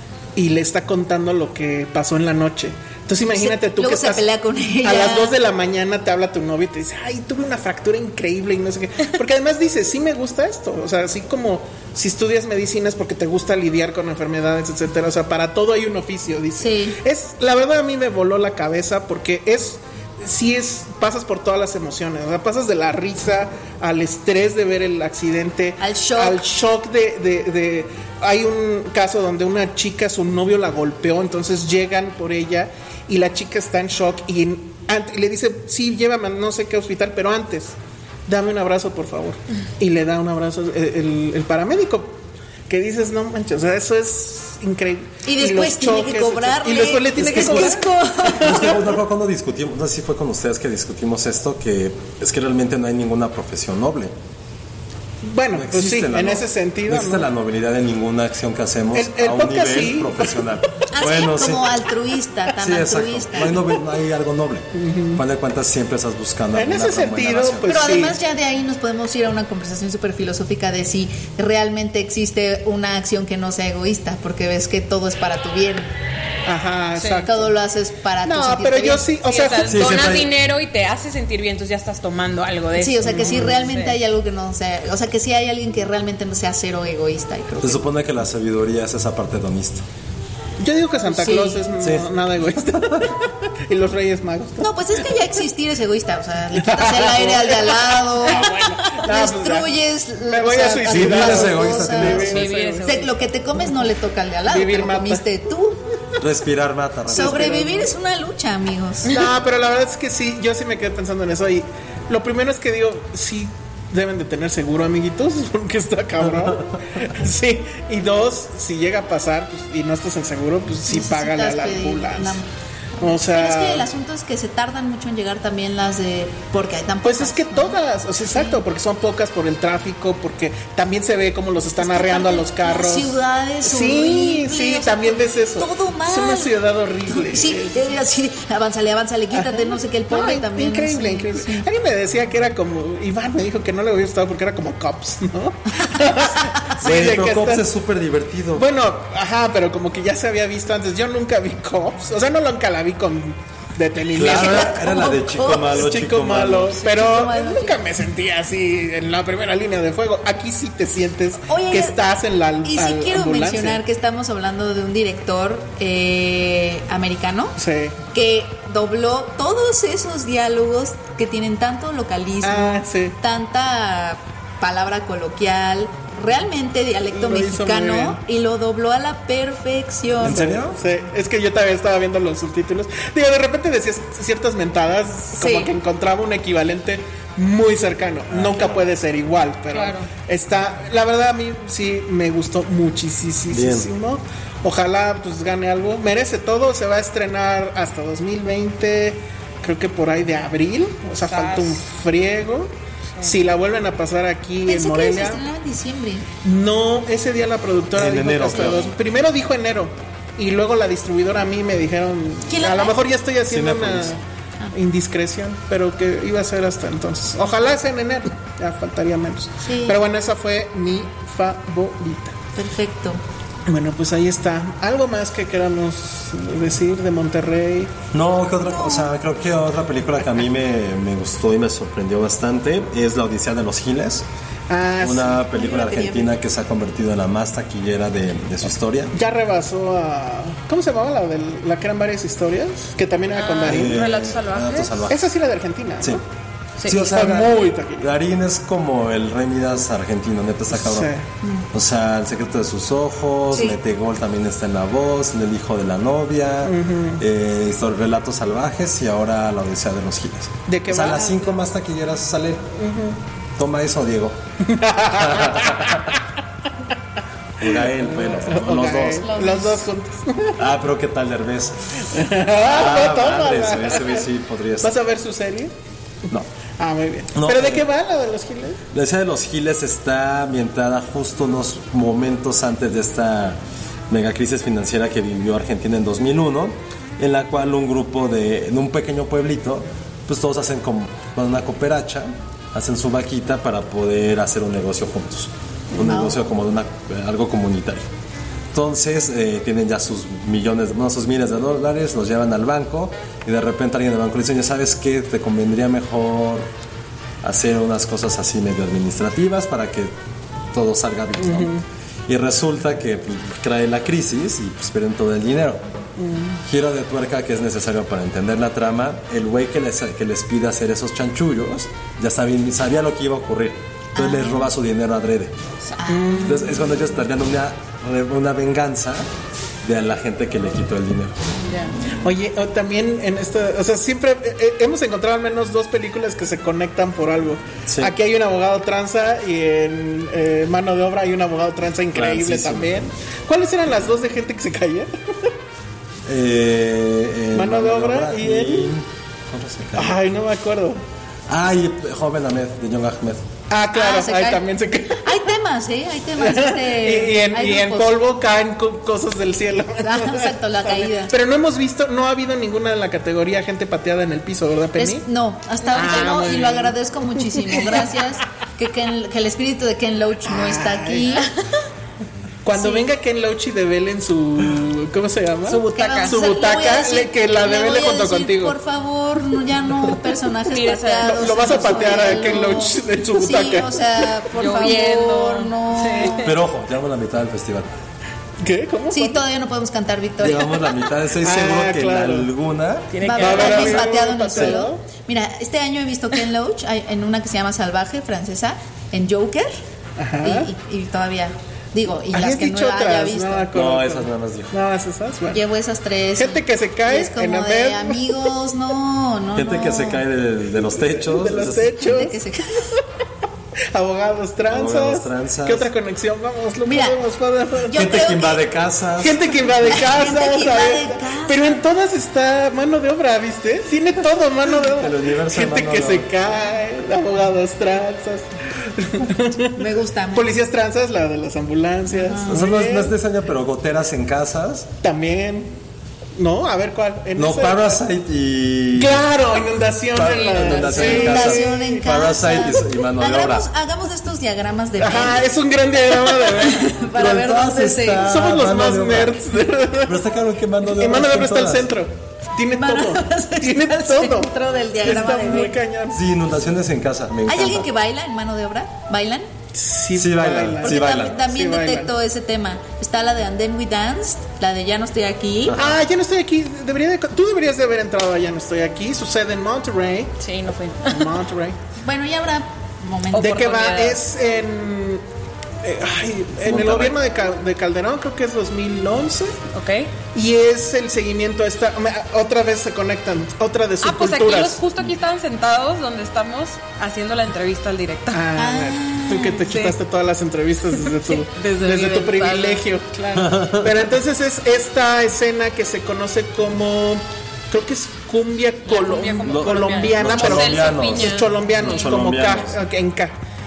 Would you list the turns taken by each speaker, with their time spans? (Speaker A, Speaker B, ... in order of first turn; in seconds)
Speaker A: 0.4-4.3, 4.8-37.8, 38.3-48.9, 55.2-57.3, 58.9-60.4, 64.7-65.2, 66.5-68.2, 76.5-77.5, 78.2-79.9, 83.0-83.6, 90.6-95.1, 96.6-99.7, 100.3-103.0, 104.5-105.2, 107.1-107.9, 109.0-122.4, 123.0-123.9, 127.0-137.8, 139.3-147.7, 148.5-163.8, 167.6-168.0, 172.4-173.2, 177.1-178.2, 180.2-205.4, 206.4-214.2, 214.7-222.4, 223.7-227.9, 234.7-235.4, 239.1-243.9, 245.1-246.2, 246.9-248.1, 250.7-251.3, 256.6-257.2, 260.7-261.5, 262.8-263.2, 264.7-266.1, 267.6-270.6, 272.1-274.3, 274.8-275.7, 276.8-278.8, 311.4-311.8, 316.2-316.6, 326.1-326.7, 332.2-345.5, 347.5-348.9, 349.9-351.0, 353.7-355.4, 356.4-365.3, 365.9-368.1, 370.5-371.4, 372.6-378.8, 380.0-380.3, 381.2-384.3, 388.6-389.4, 391.4-392.5, 393.4-395.0, 400.2-400.7, 402.3-405.6, 406.4-408.5, 410.7-413.0, 413.9-417.9, 419.2-429.8, 430.3-433.1, 435.0-435.7, 436.4-438.0, 438.9-442.0, 445.0-447.0, 448.2-450.2, 450.9-456.2, 459.7-462.1, 465.7-470.3, 471.1-471.8, 473.3-475.2, 475.8-479.6, 480.3-484.8, 488.3-503.3
Speaker B: 3.3-5.3, 16.6-17.0, 25.8-26.4, 45.2-48.7, 60.9-63.6, 67.7-75.9, 77.2-79.1, 82.7-87.8, 91.1-91.6, 94.6-105.8, 107.1-109.2, 120.9-127.8, 128.3-128.6, 131.8-136.6, 137.1-141.6, 154.2-155.9, 156.7-157.8, 161.5-162.0, 162.6-167.6, 168.1-180.4, 185.4-185.7, 204.7-206.3, 212.5-213.0, 219.6-220.0, 222.6-223.2, 228.6-229.1, 235.5-236.3, 269.2-269.9, 324.1-324.7, 326.0-326.6, 353.9-354.6, 355.2-358.1, 360.0-361.3, 365.0-371.5, 372.7-373.1, 375.9-386.5, 389.1-390.7, 393.2-399.8, 400.4-403.7, 405.5-410.2, 411.9-412.9, 416.9-417.2, 417.8-418.6, 419.8-421.8, 429.8-430.5, 432.1-432.6, 440.8-445.4, 446.0-448.3, 452.8-455.8, 457.5-459.5, 460.8-465.8, 472.0-473.6, 488.6-489.7
Speaker C: 47.3-47.7, 48.4-54.1, 55.5-61.8, 62.6-67.9, 79.7-80.3, 87.6-89.8, 91.8-92.1, 92.7-93.1, 100.9-102.5, 106.2-107.7, 146.8-148.7, 154.1-156.8, 180.2-180.8, 188.3-188.9, 193.5-193.9, 207.9-208.9, 213.4-214.2, 228.1-234.2, 235.0-239.1, 243.7-245.3, 246.8-251.1, 251.7-262.6, 263.6-264.4, 265.2-266.1, 267.6-269.3, 270.6-272.1, 272.6-274.9, 277.3-277.9, 278.9-298.1, 298.7-306.7, 307.4-310.1, 310.7-311.7, 312.3-315.8, 316.7-325.5, 326.4-329.3, 329.8-331.4, 337.9-338.1, 342.1-343.1, 346.3-350.2, 351.5-353.4, 386.4-387.9, 390.4-393.1, 403.7-404.8, 409.6-412.0, 414.7-415.9, 417.9-419.6, 424.7-426.5, 432.5-434.9, 437.4-439.3, 440.1-443.7, 447.1-449.5, 450.0-451.9, 456.1-457.9, 460.2-461.4, 465.6-466.0, 476.6-477.2, 493.4-494.1, 499.4-502.8
Speaker D: 77.0-77.3, 79.2-84.0, 102.2-103.1, 189.7-190.1, 201.2-201.8, 243.3-244.9, 246.8-247.1, 331.7-331.9, 365.9-366.5, 375.7-376.4, 380.7-382.6, 384.5-386.6, 393.1-394.0, 440.2-440.9, 470.4-471.4, 473.4-474.2, 479.7-480.1, 484.0-488.4, 489.6-490.0, 490.9-492.9, 498.9-502.1